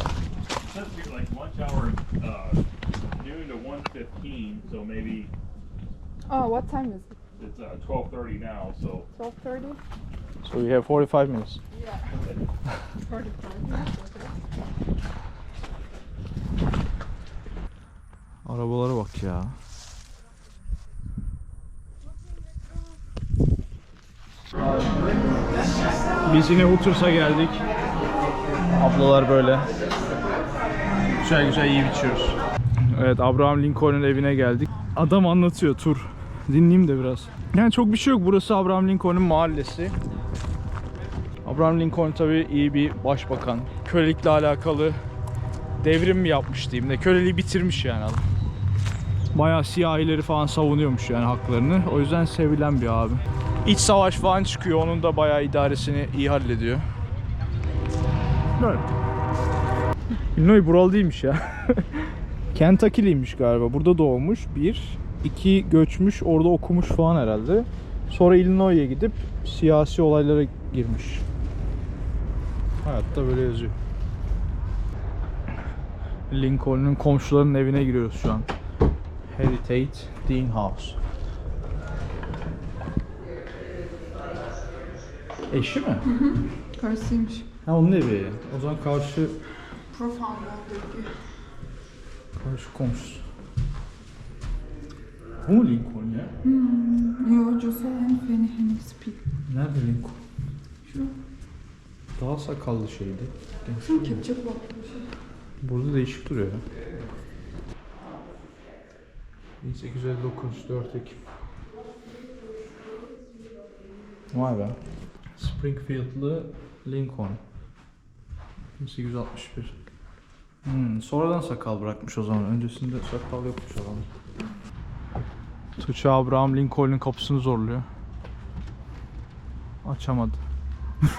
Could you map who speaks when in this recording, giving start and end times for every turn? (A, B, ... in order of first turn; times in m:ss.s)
0:00.6-0:05.3 A
0:06.3-0:07.2 B
0:07.4-0:09.1 A
0:09.1-0:09.8 B
0:10.4-0:11.6 C
0:11.7-0:12.1 B
0:12.1-0:12.5 A
0:13.0-0:14.4 B
0:18.4-0:19.6 C
0:26.2-0:27.6 C
0:28.8-0:29.7 C
0:31.2-0:32.4 C
0:32.9-0:39.9 C
0:41.4-0:45.0 C
0:45.8-0:48.2 C
0:49.3-0:56.8 C
0:58.6-0:58.8 C
1:00.3-1:11.2 C
1:12.8-1:13.8 C
1:16.3-1:18.5 C
1:19.3-1:21.0 C
1:25.5-1:26.2 C
1:26.3-1:27.5 B
1:27.6-1:29.4 C
1:29.9-1:31.2 B
1:32.4-1:33.2 C
1:35.4-1:36.3 C
1:36.4-1:39.2 B
1:39.5-1:40.2 C
1:40.8-1:41.1 B
1:42.2-1:44.2 C
1:43.8-1:45.0 B
1:45.6-1:46.6 C
1:49.6-1:51.2 C
1:54.3-1:54.8 C
1:55.4-1:57.4 C
1:58.8-1:59.7 C
2:00.6-2:04.1 C
2:05.8-2:07.8 C
2:09.8-2:10.4 C